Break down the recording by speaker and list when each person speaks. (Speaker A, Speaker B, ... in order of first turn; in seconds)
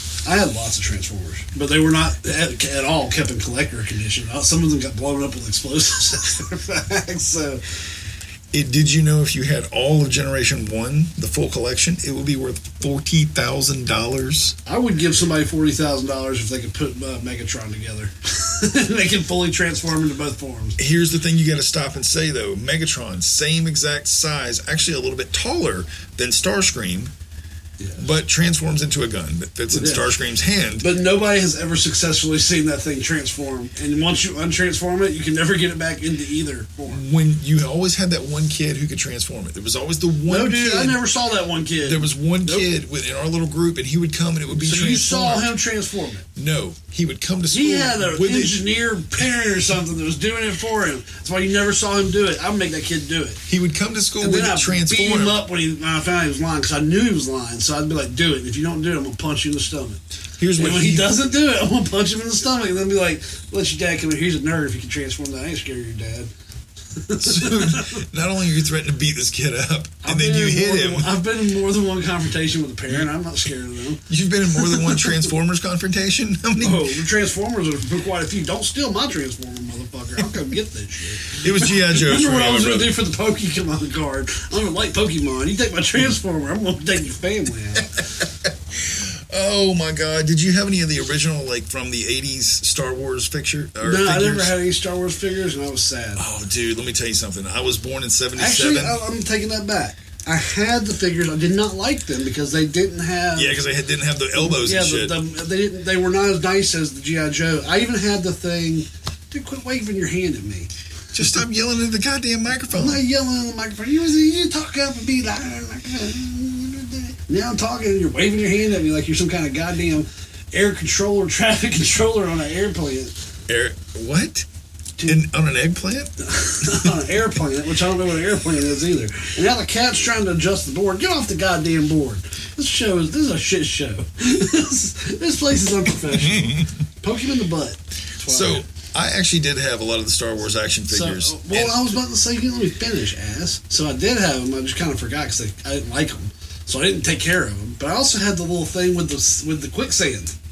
Speaker A: 0.2-7.6, 14.7-20.8, 29.7-30.1, 30.8-37.0, 40.3-42.7, 44.5-46.3, 47.5-53.4, 54.2-66.3, 67.0-68.0, 70.0-74.0, 74.6-75.1, 76.6-88.0, 93.8-96.2, 98.4-103.6, 104.4-110.7, 112.7-123.2, 126.2-138.7, 140.9-150.3
Speaker B: 8.5-14.6, 20.8-27.1, 28.0-30.9, 36.9-41.1, 41.8-45.5, 46.4-48.7, 49.2-49.5, 53.5-55.4, 60.4-61.2, 67.2-71.2, 74.1-76.9, 81.4-83.0, 88.5-94.6, 96.2-99.0, 103.3-105.2, 111.1-113.0, 123.5-124.5, 125.0-126.9, 136.2-136.6, 138.2-141.8